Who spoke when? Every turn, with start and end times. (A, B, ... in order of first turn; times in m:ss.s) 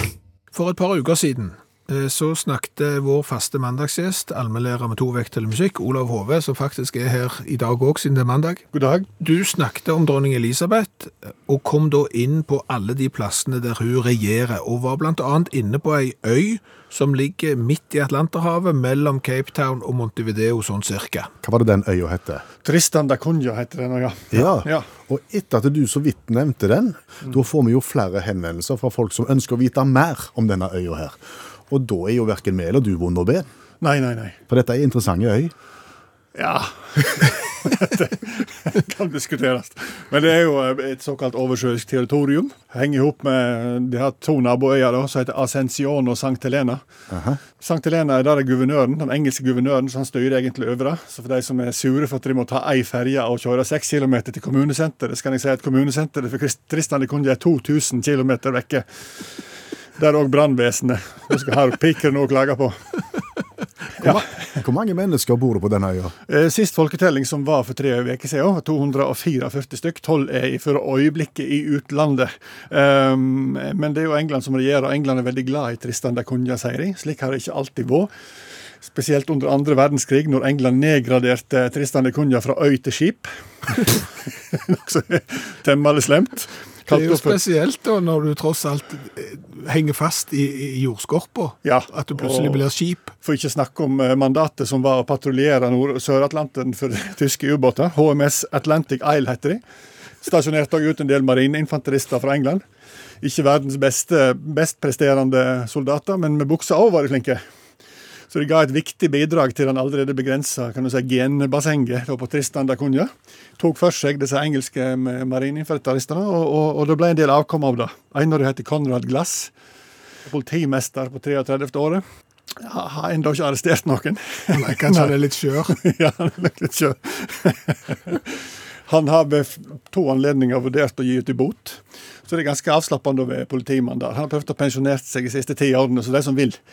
0:00.5-0:08.6 A
0:08.7-0:09.1 B
0:09.2-0:21.3 A
0:21.4-0:22.4 C
0:22.6-0:24.9 B
0:24.3-0:33.5 C
0:33.8-0:34.4 B
0:34.5-0:35.5 C
0:36.4-0:46.8 B
0:47.1-0:47.4 C
0:47.6-0:58.8 B
1:00.0-1:02.8 B
1:04.0-1:06.2 C
1:06.3-1:18.1 B
1:18.8-1:27.4 B
1:26.9-1:33.1 A
1:31.6-1:32.6 B
1:33.2-1:39.6 B
1:40.2-1:42.6 B
1:43.2-1:47.4 B
1:48.3-1:59.5 B
2:00.3-2:02.0 B
2:02.6-2:05.1 B
2:04.5-2:05.8 A
2:05.7-2:08.4 B
2:08.9-2:16.6 B